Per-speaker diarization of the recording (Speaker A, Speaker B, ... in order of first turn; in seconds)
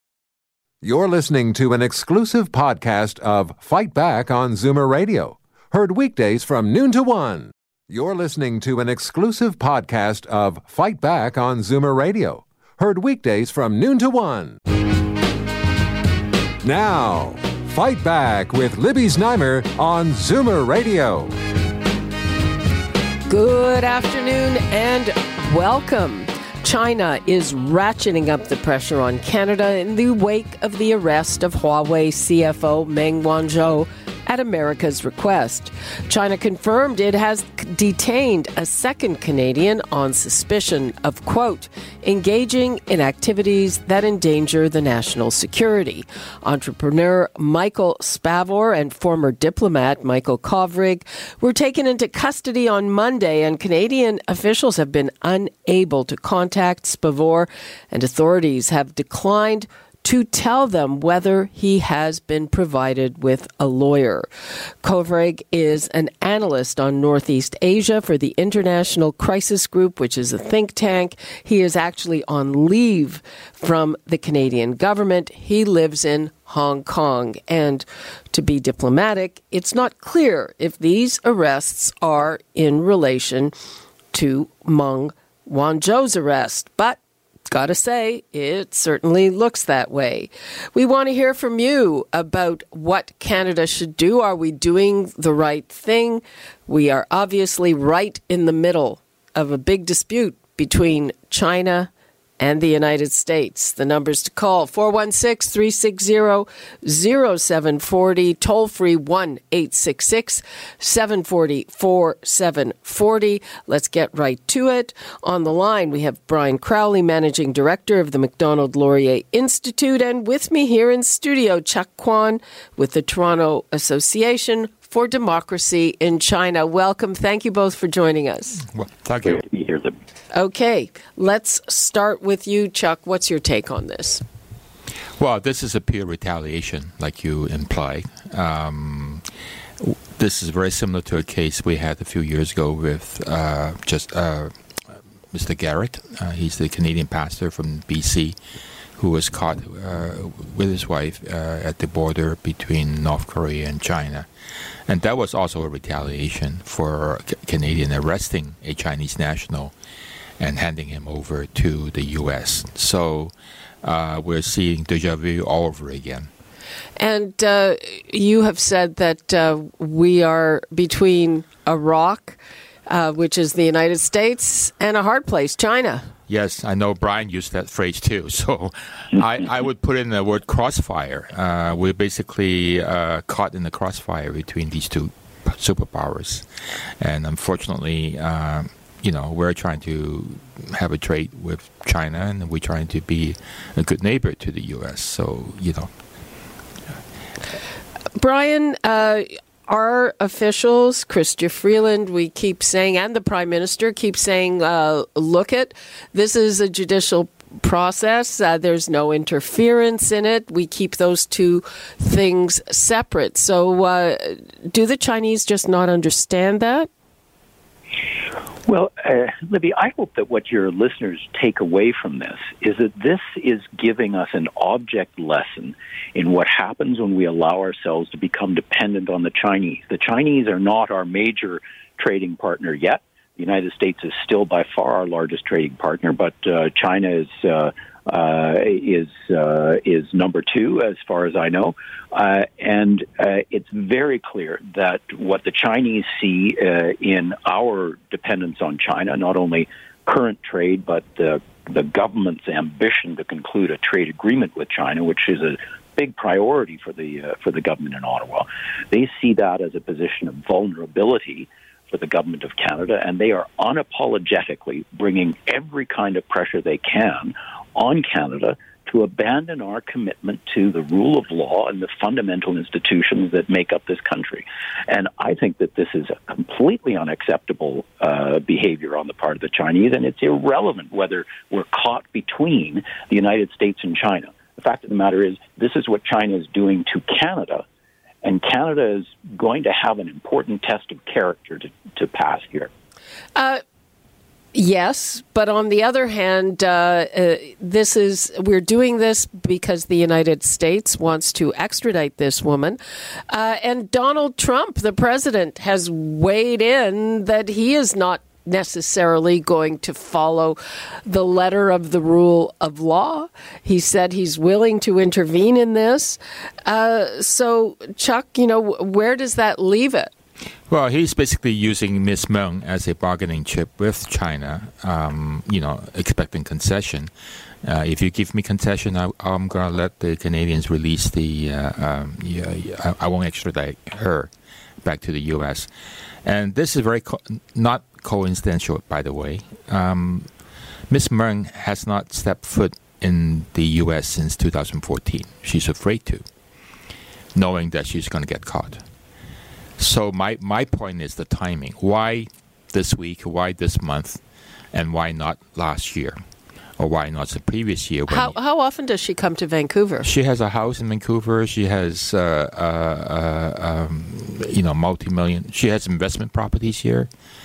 Speaker A: 0.8-14.6, 16.6-21.3
Speaker B: 23.3-64.3, 64.8-83.5, 84.1-128.6, 130.3-134.2, 167.0-176.1, 198.2-216.9, 293.4-293.6, 294.5-302.8, 303.3-320.1, 358.1-360.1
Speaker C: 128.7-129.4, 135.2-139.2, 139.8-144.5, 145.3-148.4, 149.0-154.3, 154.9-159.7, 160.4-163.3, 163.8-166.3, 176.3-186.5, 187.0-195.9, 320.7-327.1, 327.6-334.3, 334.8-335.7, 336.2-340.3, 340.9-346.2, 347.4-348.8, 349.8-354.2, 354.7-356.2, 356.8-358.4, 360.0-367.1
Speaker D: 129.2-129.9, 218.7-287.6, 288.2-292.7